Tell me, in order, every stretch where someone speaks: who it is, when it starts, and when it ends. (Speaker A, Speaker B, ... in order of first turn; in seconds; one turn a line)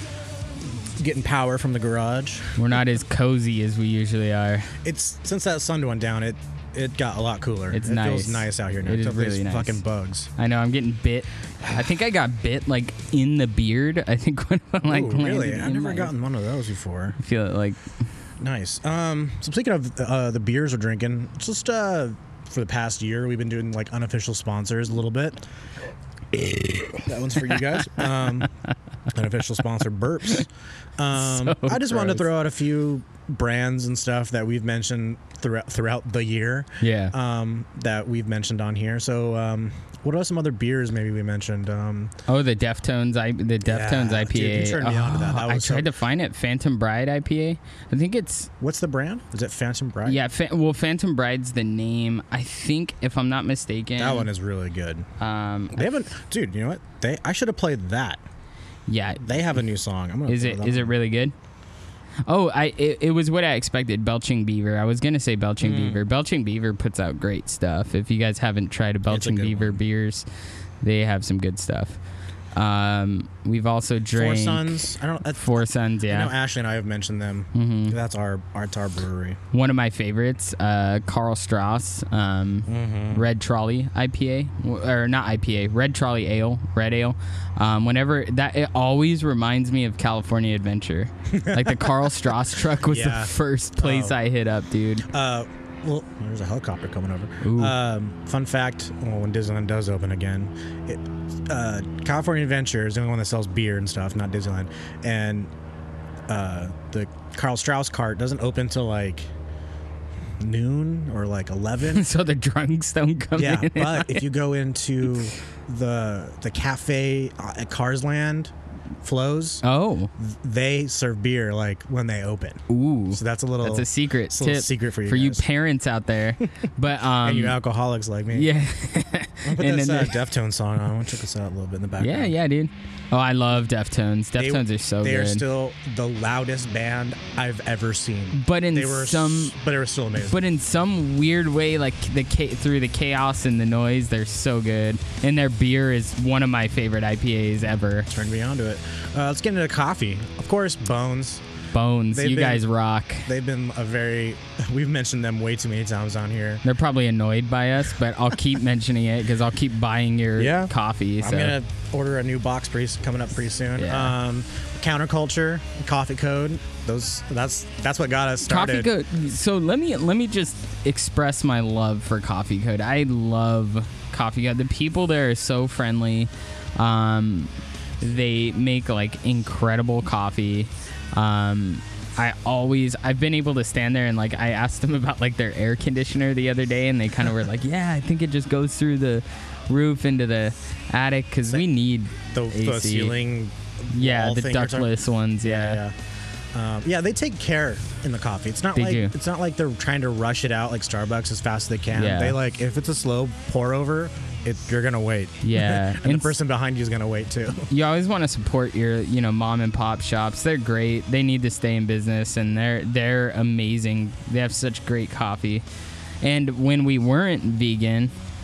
Speaker A: 1.0-2.7
Speaker B: 2.6-4.8
Speaker A: 4.8-10.3
Speaker B: 7.7-9.8
Speaker B: 10.4-16.1
Speaker A: 14.9-17.2
Speaker B: 17.2-17.8
Speaker A: 18.4-25.4
Speaker A: 26.9-28.5
Speaker A: 29.1-42.1
Speaker B: 31.2-32.3
Speaker B: 36.8-37.1
Speaker B: 42.3-48.5
Speaker A: 43.6-45.9
Speaker A: 48.6-50.2
Speaker B: 50.0-54.3
Speaker A: 54.0-55.1
Speaker B: 55.2-55.9
Speaker A: 55.7-58.2
Speaker B: 58.9-59.4
Speaker A: 59.2-60.9
Speaker B: 60.3-61.3
Speaker B: 62.3-70.2
Speaker A: 65.6-66.0
Speaker A: 69.1-69.8
Speaker B: 70.8-72.0
Speaker B: 72.5-76.3
Speaker A: 74.2-79.4
Speaker B: 77.5-78.0
Speaker B: 79.5-95.1
Speaker A: 82.7-83.3
Speaker A: 91.3-92.0
Speaker A: 92.8-94.2
Speaker A: 95.1-105.5
Speaker B: 97.4-97.8
Speaker A: 106.3-109.3
Speaker A: 110.4-112.1
Speaker B: 111.8-114.2
Speaker A: 113.4-118.5
Speaker A: 119.0-119.6
Speaker B: 119.6-120.1
Speaker A: 120.2-125.5
Speaker B: 122.7-127.6
Speaker A: 127.2-128.5
Speaker B: 128.3-130.2
Speaker A: 129.5-132.3
Speaker B: 132.0-135.4
Speaker A: 134.4-140.4
Speaker B: 138.3-139.6
Speaker B: 140.2-148.1
Speaker A: 148.1-151.4
Speaker B: 151.7-153.3
Speaker A: 152.1-152.7
Speaker A: 153.3-156.6
Speaker B: 156.6-161.6
Speaker A: 160.4-168.9
Speaker B: 163.8-164.2
Speaker B: 168.5-193.2
Speaker A: 192.3-195.9
Speaker B: 193.9-195.8
Speaker A: 196.5-207.7
Speaker B: 198.7-199.1
Speaker B: 201.9-202.4
Speaker B: 205.4-206.4
Speaker B: 207.7-215.6
Speaker B: 216.2-218.1